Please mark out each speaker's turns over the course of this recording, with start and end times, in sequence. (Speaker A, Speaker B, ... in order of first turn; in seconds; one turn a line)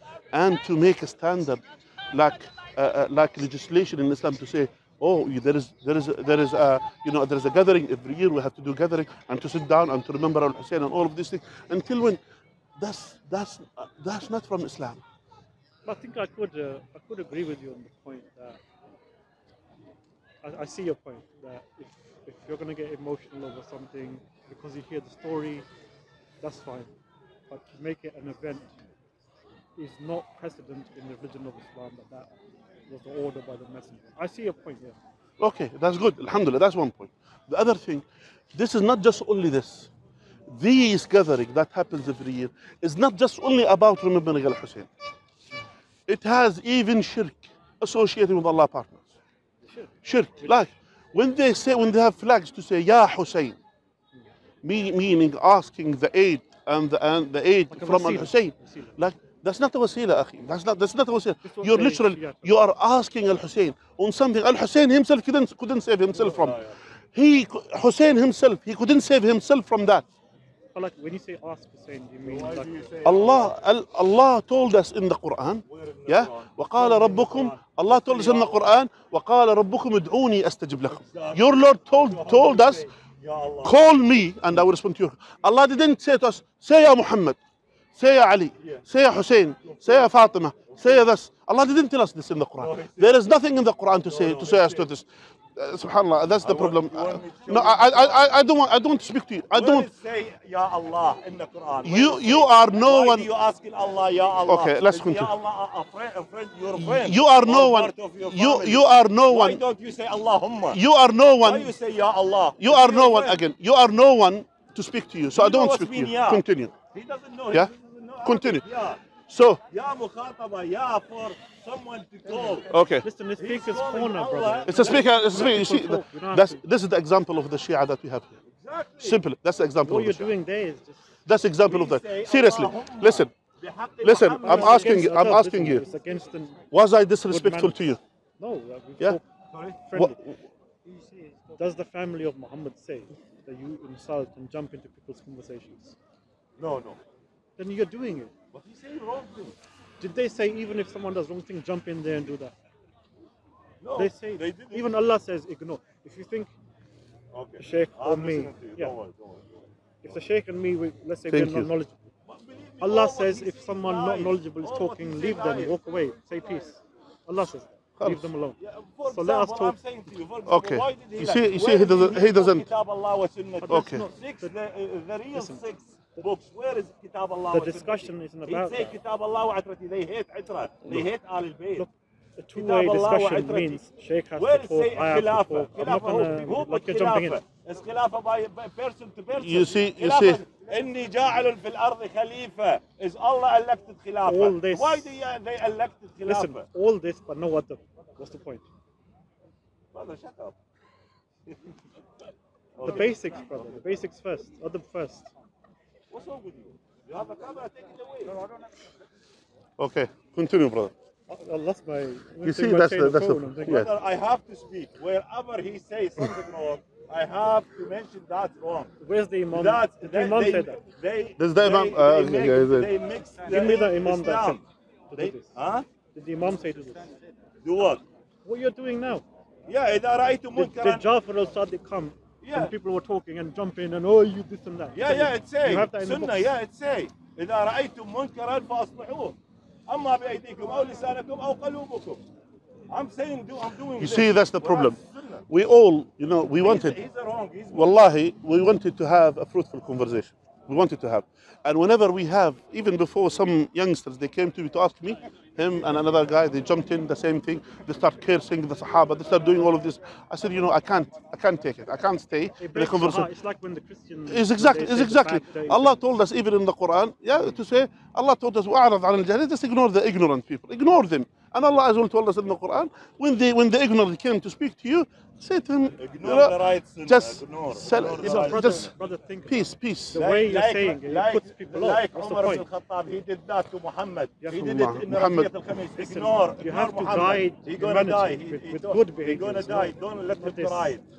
Speaker A: 0.3-12.2
Speaker A: 12.8-15.0
Speaker B: 15.8-18.6
Speaker B: 20.4-25.7
Speaker B: 26.4-26.9
Speaker B: 27.5-28.8
Speaker B: 29.8-32.3
Speaker B: 32.9-35.0
Speaker A: 35.4-39.9
Speaker A: 40.5-44.9
Speaker A: 46.1-49.1
Speaker B: 49.6-49.9
Speaker A: 50.0-53.6
Speaker A: 54.6-66.6
Speaker B: 57.7-59.0
Speaker B: 61.4-62.5
Speaker C: 66.1-66.8
Speaker A: 67.1-70.0
Speaker B: 70.7-72.9
Speaker C: 72.3-73.5
Speaker A: 73.0-82.9
Speaker C: 75.7-78.6
Speaker C: 80.9-83.8
Speaker A: 83.6-87.4
Speaker A: 88.0-99.9
Speaker C: 89.6-90.1
Speaker C: 90.7-91.0
Speaker C: 92.6-93.1
Speaker C: 94.1-94.9
Speaker C: 96.4-98.3
Speaker C: 99.5-110.8
Speaker A: 101.8-103.3
Speaker A: 104.4-105.3
Speaker A: 106.8-109.6
Speaker A: 110.7-111.7
Speaker C: 111.4-113.4
Speaker A: 112.6-116.7
Speaker C: 115.3-119.0
Speaker A: 118.2-118.6
Speaker A: 119.3-119.6
Speaker C: 119.7-122.7
Speaker A: 122.7-123.1
Speaker B: 123.0-126.6
Speaker C: 123.4-125.1
Speaker A: 124.7-128.3
Speaker C: 128.5-129.2
Speaker A: 129.0-130.3
Speaker B: 129.8-131.0
Speaker A: 131.3-133.3
Speaker C: 131.7-135.1
Speaker A: 134.0-135.8
Speaker B: 134.4-136.6
Speaker A: 136.7-138.0
Speaker B: 137.3-137.8
Speaker B: 138.4-139.3
Speaker C: 139.5-139.8
Speaker B: 139.8-140.2
Speaker A: 139.9-140.3
Speaker B: 141.5-146.0
Speaker C: 146.6-147.0
Speaker B: 147.6-148.3
Speaker C: 148.5-149.6
Speaker B: 150.0-152.6
Speaker C: 153.8-154.9
Speaker B: 153.9-156.5
Speaker C: 157.3-159.6
Speaker B: 157.6-158.9
Speaker B: 160.0-162.1
Speaker A: 161.3-161.7
Speaker C: 162.3-165.8
Speaker B: 162.8-169.8
Speaker A: 168.0-168.3
Speaker C: 168.6-181.9
Speaker A: 170.5-172.7
Speaker B: 173.6-174.5
Speaker A: 173.7-174.0
Speaker B: 175.3-176.3
Speaker B: 177.5-179.0
Speaker B: 181.8-187.4
Speaker C: 182.6-183.8
Speaker C: 184.4-196.7
Speaker A: 189.3-190.4
Speaker B: 194.3-195.2
Speaker B: 196.2-198.7
Speaker C: 199.9-200.6
Speaker C: 202.8-203.2
Speaker B: 202.8-205.3
Speaker C: 206.1-208.4
Speaker A: 209.8-210.9
Speaker B: 211.3-213.8
Speaker A: 212.4-213.9
Speaker C: 213.6-218.9
Speaker B: 219.0-220.8
Speaker C: 219.5-224.6
Speaker A: 221.4-222.9
Speaker B: 223.4-224.6
Speaker B: 225.1-225.5
Speaker C: 225.2-225.9
Speaker B: 226.1-227.1
Speaker C: 227.6-228.0
Speaker B: 228.4-229.2
Speaker C: 229.7-231.1
Speaker B: 230.6-236.5
Speaker C: 232.4-232.7
Speaker C: 235.0-239.4
Speaker C: 239.9-242.2
Speaker C: 242.9-245.4
Speaker A: 244.0-245.0
Speaker A: 245.5-247.0
Speaker C: 246.6-248.0
Speaker A: 247.7-263.3
Speaker B: 262.6-266.0
Speaker A: 264.3-278.9
Speaker C: 276.0-278.8
Speaker B: 278.0-282.7
Speaker A: 279.5-280.2
Speaker C: 280.1-291.0
Speaker B: 284.4-284.8
Speaker A: 284.5-285.5
Speaker B: 286.0-290.9